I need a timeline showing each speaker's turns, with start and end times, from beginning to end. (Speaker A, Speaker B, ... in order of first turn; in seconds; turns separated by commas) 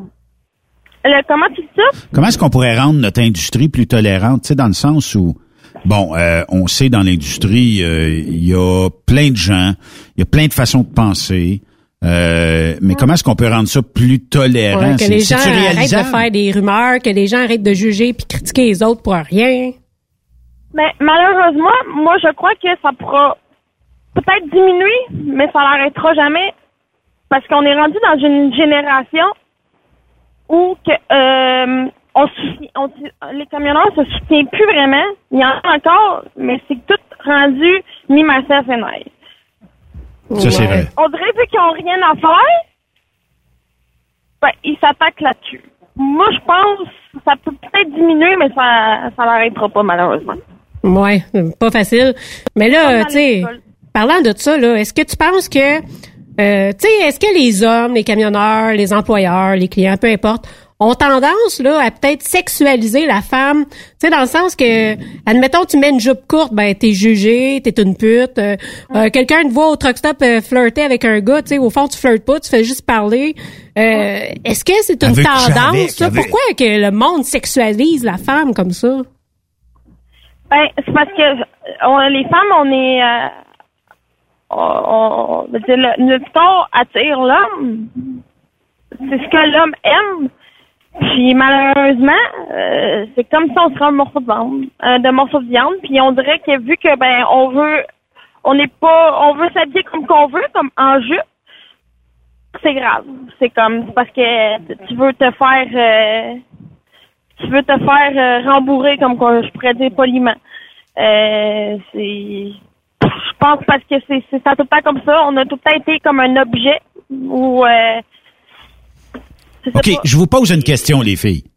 Speaker A: 1.1-2.0, Speaker B: 2.1-16.3, Speaker C: 14.7-19.8, Speaker A: 20.7-23.4, Speaker A: 24.1-26.5, Speaker A: 27.3-29.3, Speaker A: 30.5-39.1, Speaker C: 40.3-40.9, Speaker B: 40.4-40.9, Speaker A: 40.4-42.5, Speaker A: 44.4-50.4, Speaker C: 50.8-55.8, Speaker A: 52.7-53.6, Speaker C: 56.4-79.1, Speaker B: 75.0-76.3, Speaker A: 80.5-83.3, Speaker A: 84.5-88.1, Speaker A: 89.0-90.3, Speaker A: 91.0-97.8, Speaker A: 98.4-101.2, Speaker A: 102.5-106.4, Speaker A: 107.4-110.4, Speaker A: 111.0-118.0, Speaker A: 119.7-120.0, Speaker B: 119.7-121.5